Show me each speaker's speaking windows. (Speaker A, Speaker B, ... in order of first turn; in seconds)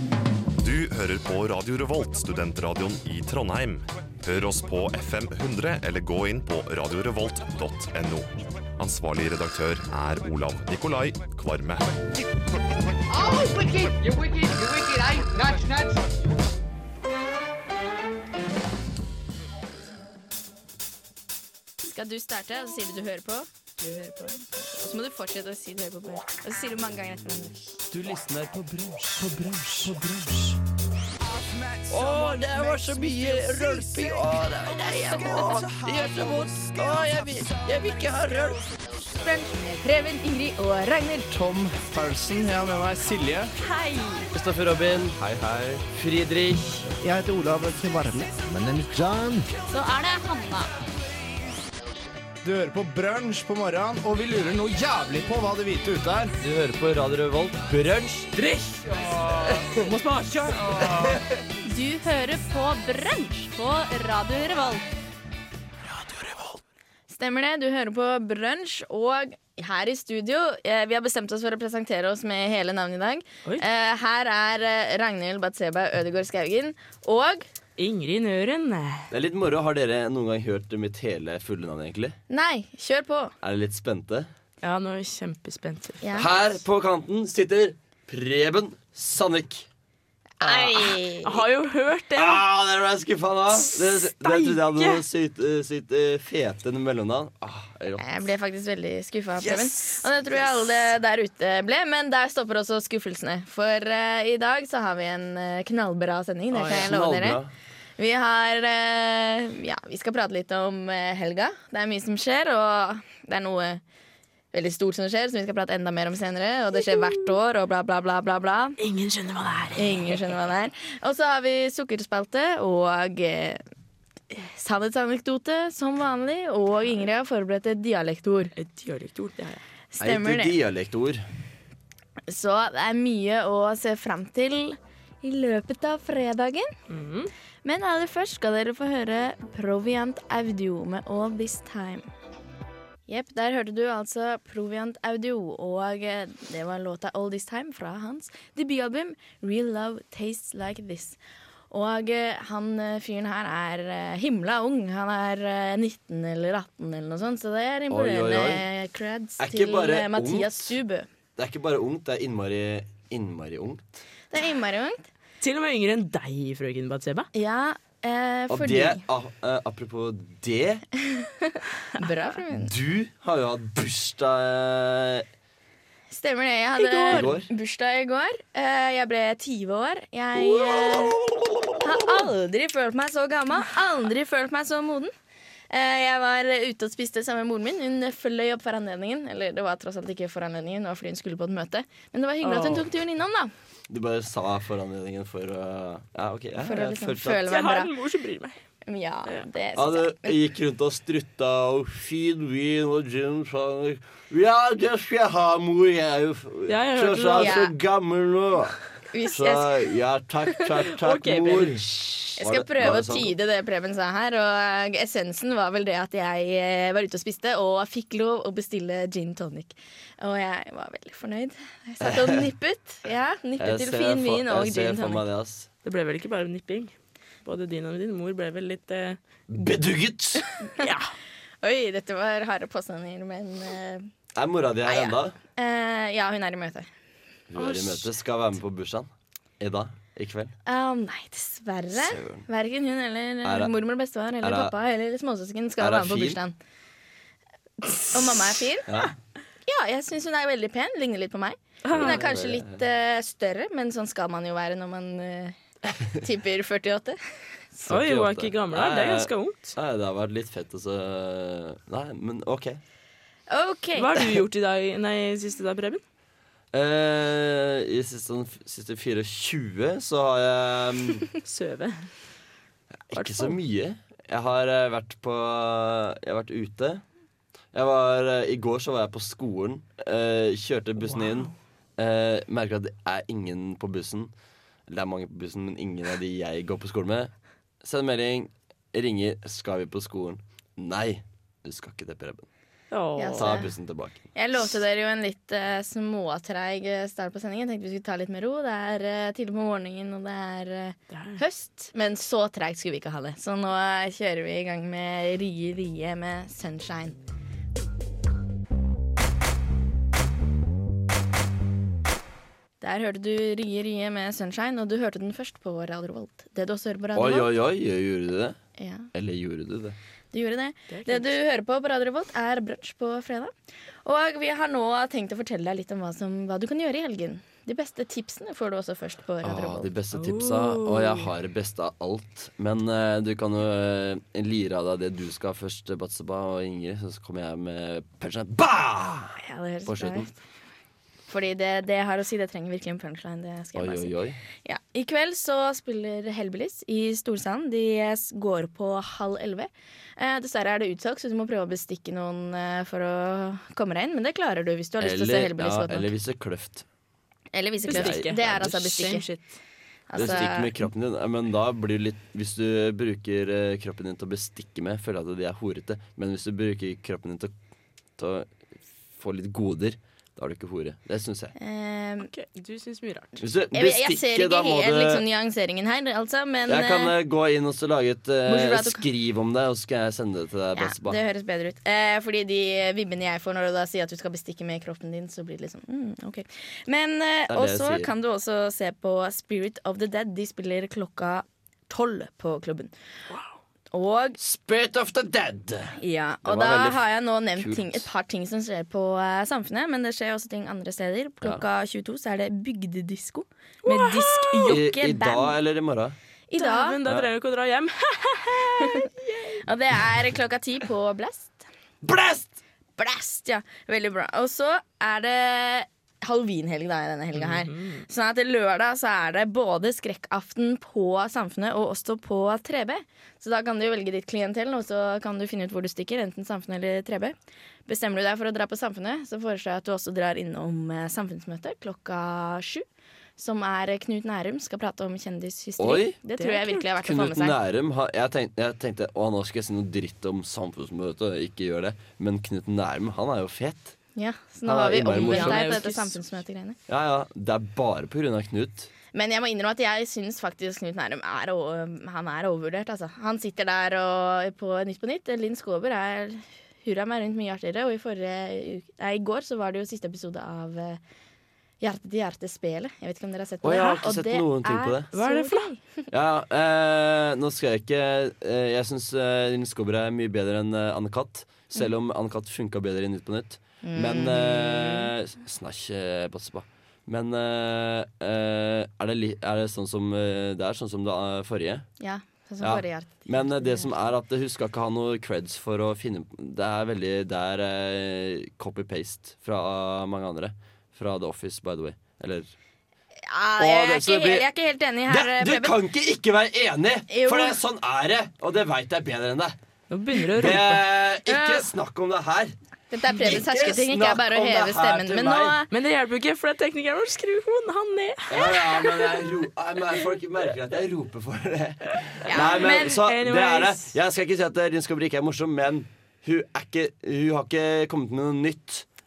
Speaker A: 0.6-11.9
Speaker B: 13.1-15.9
Speaker C: 21.8-27.6, 39.2-41.3, 43.6-44.2, 49.7-50.7, 61.7-64.8, 67.1-77.5, 82.3-83.3, 86.0-86.3, 90.4-91.4, 98.0-107.4, 108.0-113.8, 114.5-118.8, 119.8-123.6, 124.3-128.5, 129.9-130.6, 132.3-136.8, 137.6-142.1, 143.1-151.2, 151.7-161.1, 164.3-165.1, 167.3-169.0, 171.0-172.7, 176.1-181.2, 181.8-185.1, 185.7-193.5, 196.6-197.9, 198.8-200.4, 207.4-207.7, 209.1-209.7, 212.4-225.3, 231.6-234.1, 234.9-236.9, 240.7-246.6, 247.9-248.9, 249.7-255.6, 256.1-257.2, 263.5-264.3, 293.2-293.7, 294.4-307.2, 312.8-317.5, 318.8-319.1, 320.3-323.5, 324.1-329.9, 339.4-340.3, 341.3-356.1, 357.5-359.2, 360.1-360.7, 371.6-372.3, 373.7-377.1, 378.5-379.0, 380.8-392.9, 393.9-394.4, 396.0-405.6, 406.5-407.0, 408.8-409.1, 409.6-411.6, 413.0-427.4, 427.9-432.9, 433.4-437.6, 444.2-446.8, 449.1-461.0, 461.8-466.1, 473.8-475.1, 482.0-483.9, 493.2-495.8, 497.1-497.6, 501.3-501.7, 502.9-505.7, 512.3-512.9
Speaker D: 27.9-30.6, 31.9-38.7, 44.3-46.9, 56.4-58.4, 79.1-82.2, 83.4-84.3, 86.1-89.7, 92.2-98.0, 106.6-107.5, 130.0-131.2, 157.9-158.7, 159.4-160.8, 161.4-164.0, 168.5-170.8, 172.5-175.3, 177.1-177.5, 180.3-182.3, 193.9-197.4, 199.8-208.8, 209.3-211.8, 212.4-213.3, 222.0-222.4, 223.6-225.7, 229.5-230.5, 234.3-235.4, 237.5-240.5, 241.9-242.5, 243.4-243.8, 244.4-244.7, 245.8-246.4, 248.9-249.2, 251.9-252.8, 255.9-256.2, 257.9-262.8, 266.7-271.3, 273.1-277.0, 277.7-284.3, 284.9-287.3, 287.8-292.5, 293.4-294.2, 317.1-318.6, 319.1-320.0, 329.4-340.3, 343.8-344.4, 355.0-356.9, 357.9-358.7, 360.1-367.5, 368.2-368.5, 369.2-371.6, 373.4-375.2, 376.7-381.2, 387.5-388.1, 394.4-397.0, 397.6-398.1, 404.7-406.2, 407.0-407.3, 412.1-412.6, 435.8-436.2, 437.0-444.0, 444.6-445.8, 446.9-448.9, 463.6-465.1, 466.1-481.9, 482.6-492.5, 493.6-494.5, 495.1-499.6, 500.3-502.5, 503.1-505.6, 508.3-518.9
Speaker E: 31.2-34.3, 34.8-38.4, 41.3-43.5, 47.0-49.5, 52.4-56.3
Speaker F: 77.8-79.1, 84.6-86.2, 90.4-92.4, 93.8-95.0, 99.4-100.0, 106.5-106.9, 118.8-120.3, 128.6-129.6, 136.9-137.3, 165.4-167.3, 176.8-177.3, 192.4-192.9, 197.5-198.6, 206.7-207.6, 210.6-212.3, 225.8-226.9, 227.4-229.2, 230.8-231.1, 237.6-238.0, 251.8-252.2, 257.9-259.8, 264.0-266.0, 271.4-272.1, 273.1-273.6, 281.0-281.5, 292.9-293.5, 301.1-301.4, 320.9-321.3, 330.1-331.3, 357.9-359.6, 372.2-373.4, 403.9-404.8, 406.6-409.6, 417.4-418.1, 436.4-436.9, 445.1-446.2, 465.1-465.7, 499.9-500.9, 505.7-509.2, 512.2-513.9